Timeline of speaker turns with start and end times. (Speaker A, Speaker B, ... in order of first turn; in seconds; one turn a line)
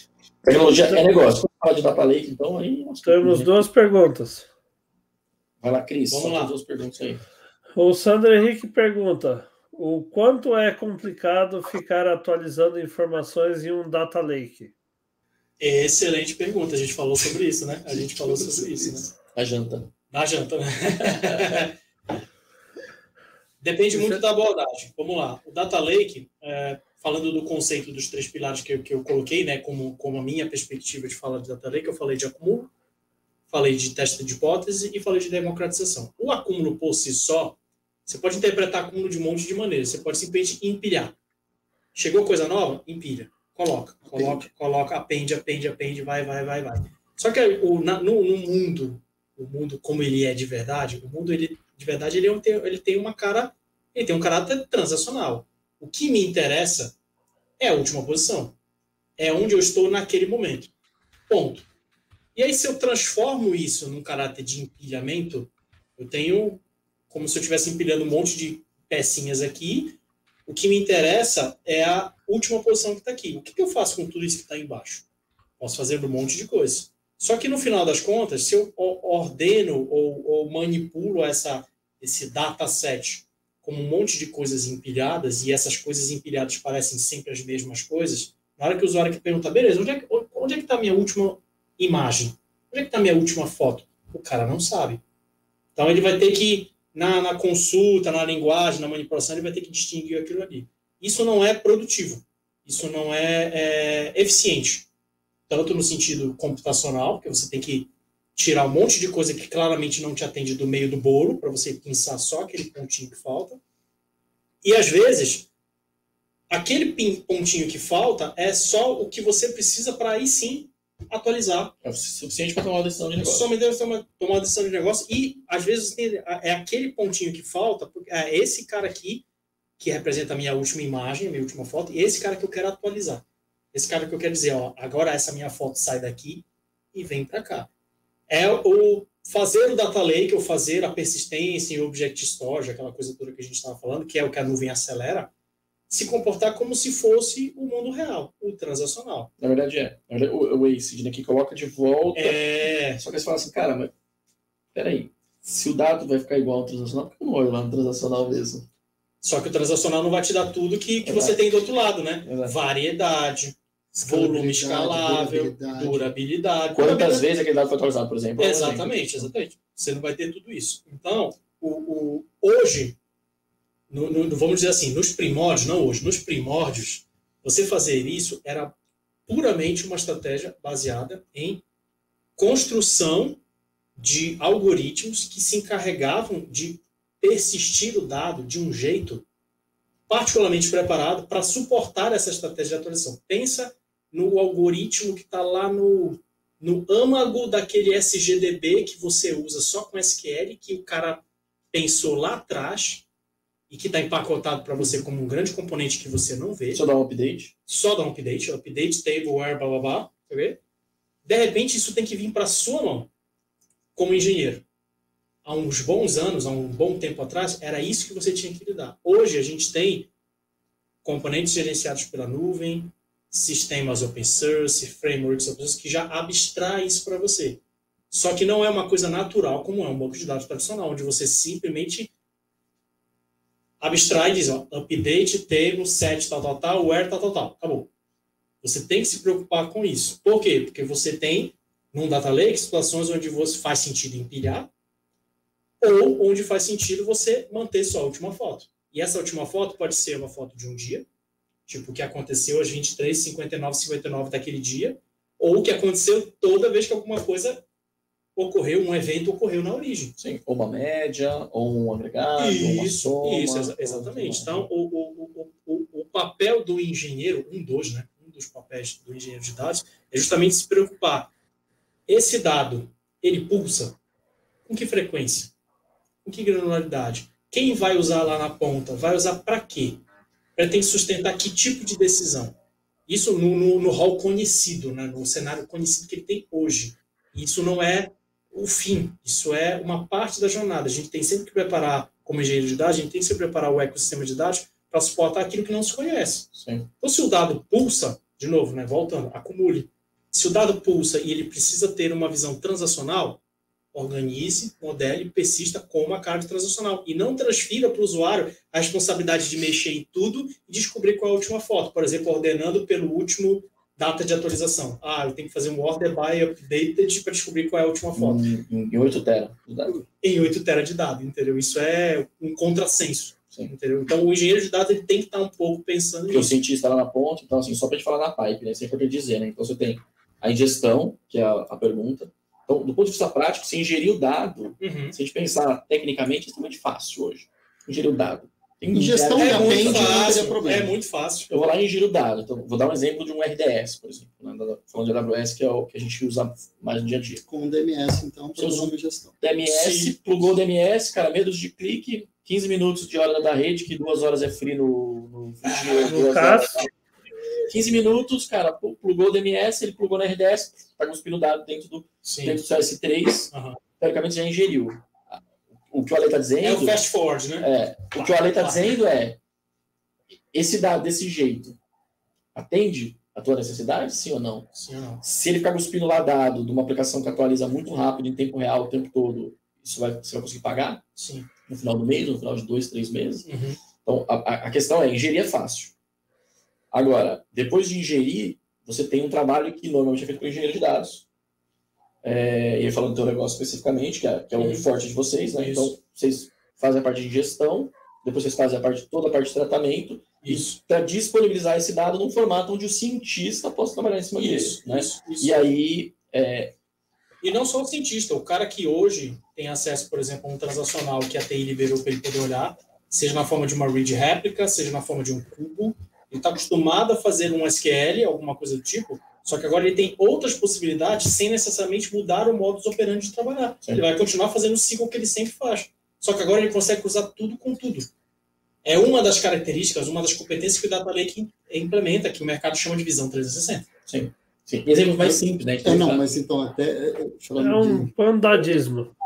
Speaker A: 0.4-3.5
Speaker B: 3.0-4.5
Speaker A: 5.6-7.2
Speaker C: 6.1-6.5
Speaker B: 7.8-14.7
Speaker C: 15.6-19.1
Speaker A: 19.3-19.9
Speaker C: 20.1-21.7
Speaker A: 20.9-21.7
Speaker C: 23.6-32.7
Speaker C: 33.5-41.1
Speaker C: 41.9-56.9
Speaker D: 44.0-44.5
Speaker C: 57.6-58.5
Speaker C: 59.2-60.7
Speaker C: 61.3-61.7
Speaker C: 62.3-75.0
Speaker C: 75.6-95.0
Speaker C: 95.8-104.9
Speaker C: 105.5-113.6
Speaker C: 114.6-115.5
Speaker C: 116.5-121.7
Speaker A: 121.8-123.5
Speaker C: 123.2-129.2
Speaker C: 129.8-137.7
Speaker C: 138.3-145.3
Speaker C: 145.9-149.3
Speaker A: 149.4-153.9
Speaker C: 152.1-153.0
Speaker A: 154.7-158.7
Speaker C: 159.2-167.3
Speaker A: 161.0-161.4
Speaker A: 162.2-162.6
Speaker D: 164.1-166.1
Speaker A: 166.7-169.3
Speaker C: 168.4-173.0
Speaker C: 173.9-178.7
Speaker C: 179.3-181.6
Speaker C: 182.3-183.4
Speaker C: 184.0-189.2
Speaker C: 190.1-203.0
Speaker C: 203.7-206.8
Speaker A: 206.7-207.5
Speaker C: 207.7-210.6
Speaker C: 211.2-213.1
Speaker C: 213.9-214.6
Speaker C: 215.4-220.1
Speaker C: 221.0-232.1
Speaker C: 233.8-237.9
Speaker C: 238.6-244.7
Speaker C: 245.8-251.1
Speaker C: 251.7-257.6
Speaker C: 258.4-260.1
Speaker A: 260.2-264.7
Speaker C: 262.4-271.3
Speaker C: 272.1-274.0
Speaker C: 274.6-275.5
Speaker C: 276.2-280.0
Speaker C: 280.6-282.6
Speaker C: 283.1-303.4
Speaker A: 296.5-296.9
Speaker C: 303.9-318.4
Speaker A: 318.1-320.0
Speaker C: 320.2-326.5
Speaker A: 326.3-340.6
Speaker C: 334.8-335.1
Speaker D: 338.9-340.9
Speaker C: 339.4-341.5
Speaker A: 341.5-347.4
Speaker D: 347.5-349.3
Speaker A: 348.6-356.9
Speaker C: 349.6-350.1
Speaker C: 355.6-356.6
Speaker B: 356.1-356.9
Speaker A: 357.7-367.0
Speaker C: 362.2-362.6
Speaker C: 363.5-363.8
Speaker C: 366.6-369.0
Speaker A: 367.6-369.4
Speaker A: 370.5-371.8
Speaker A: 372.5-374.7
Speaker C: 374.7-375.2
Speaker A: 375.2-381.0
Speaker C: 381.1-381.5
Speaker A: 381.7-383.5
Speaker C: 383.4-383.8
Speaker A: 384.0-385.9
Speaker A: 386.9-391.2
Speaker A: 392.2-406.7
Speaker C: 394.6-394.9
Speaker C: 395.6-395.9
Speaker C: 400.4-400.8
Speaker C: 404.3-405.6
Speaker C: 407.4-428.1
Speaker C: 428.8-433.9
Speaker A: 434.1-436.3
Speaker D: 435.2-438.1
Speaker B: 437.6-439.1